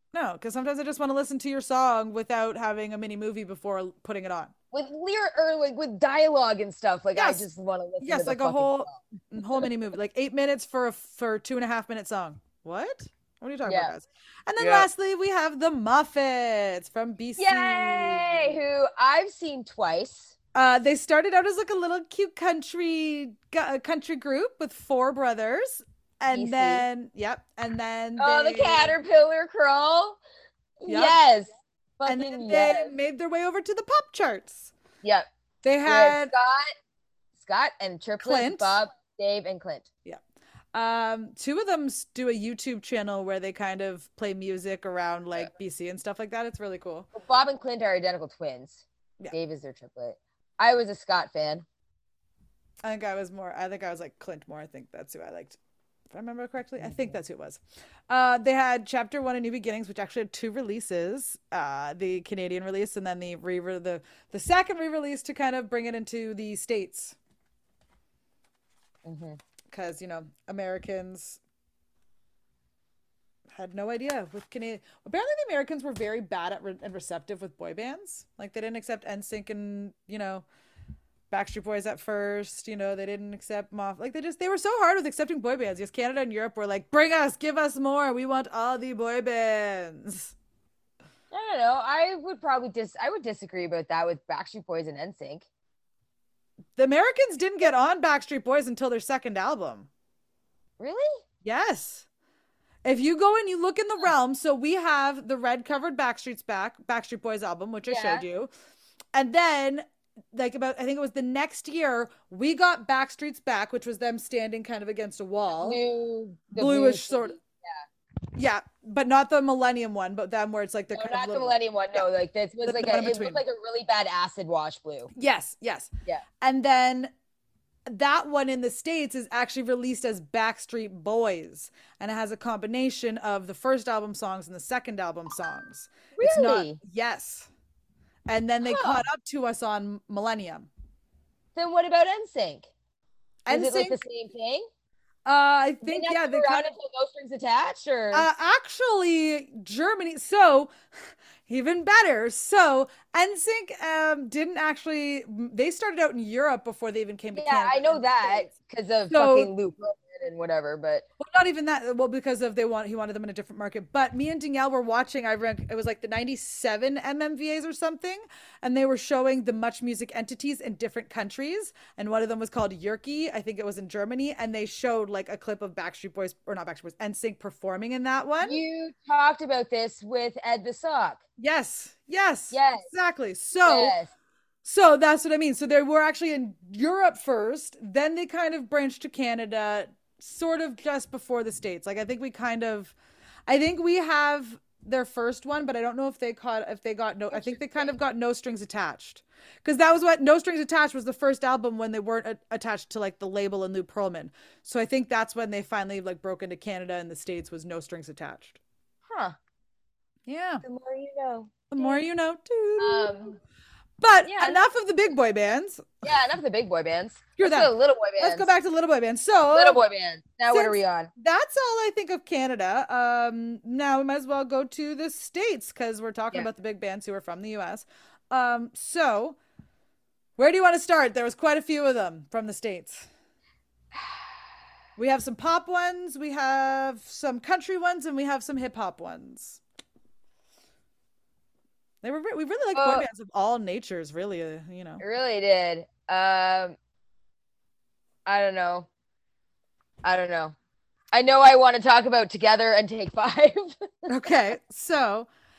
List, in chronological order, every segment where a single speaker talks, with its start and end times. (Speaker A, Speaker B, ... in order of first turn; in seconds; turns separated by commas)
Speaker A: 0.1-4.5, Speaker B: 4.7-9.0, Speaker A: 7.2-7.5, Speaker A: 8.0-18.6, Speaker B: 13.7-13.9, Speaker B: 14.6-14.9, Speaker B: 17.4-20.3, Speaker A: 20.6-29.0, Speaker B: 26.3-26.9, Speaker B: 28.2-30.2, Speaker B: 30.8-32.9, Speaker A: 30.9-31.2, Speaker A: 32.0-34.7, Speaker A: 35.6-36.3, Speaker B: 35.9-36.7, Speaker B: 37.4-39.9, Speaker A: 38.2-38.8, Speaker A: 40.7-47.1, Speaker B: 47.1-51.7, Speaker A: 52.8-55.6, Speaker A: 56.1-67.2, Speaker B: 56.8-57.1, Speaker B: 69.0-69.4, Speaker A: 69.7-71.4, Speaker A: 73.5-80.5, Speaker A: 81.3-90.3, Speaker B: 91.3-95.5, Speaker A: 96.8-99.9, Speaker B: 100.8-101.2, Speaker A: 101.4-102.1, Speaker A: 102.8-108.5, Speaker B: 107.9-108.2, Speaker A: 109.1-115.8, Speaker B: 115.5-117.8, Speaker A: 116.5-117.4, Speaker A: 118.3-122.1, Speaker B: 120.9-125.1, Speaker A: 122.6-123.4, Speaker A: 125.1-127.1, Speaker A: 127.9-137.5, Speaker B: 136.2-136.8, Speaker A: 138.3-140.7, Speaker B: 138.6-139.1, Speaker B: 141.6-142.7, Speaker A: 143.5-144.0, Speaker B: 143.5-144.7, Speaker A: 145.3-146.7, Speaker B: 145.8-148.3, Speaker A: 148.1-150.7, Speaker A: 151.5-158.4, Speaker B: 157.3-161.1, Speaker A: 159.1-159.5, Speaker A: 161.2-178.6, Speaker B: 178.4-181.2, Speaker A: 181.4-184.0, Speaker B: 182.5-182.9, Speaker B: 183.7-184.1, Speaker A: 184.6-192.9, Speaker A: 193.5-208.6, Speaker B: 197.3-198.0, Speaker B: 209.1-209.4, Speaker A: 210.3-210.6, Speaker B: 210.6-212.1, Speaker A: 211.7-213.2, Speaker B: 212.8-213.4, Speaker A: 214.0-216.2, Speaker B: 214.2-214.6, Speaker B: 216.0-218.5, Speaker A: 217.4-219.8, Speaker B: 219.5-221.1, Speaker A: 220.5-229.4, Speaker A: 230.4-233.1, Speaker A: 235.0-239.6, Speaker A: 242.0-245.0, Speaker B: 242.7-243.1, Speaker B: 245.0-246.8, Speaker B: 248.3-248.9, Speaker B: 250.0-250.6, Speaker B: 251.1-254.3, Speaker A: 254.1-255.3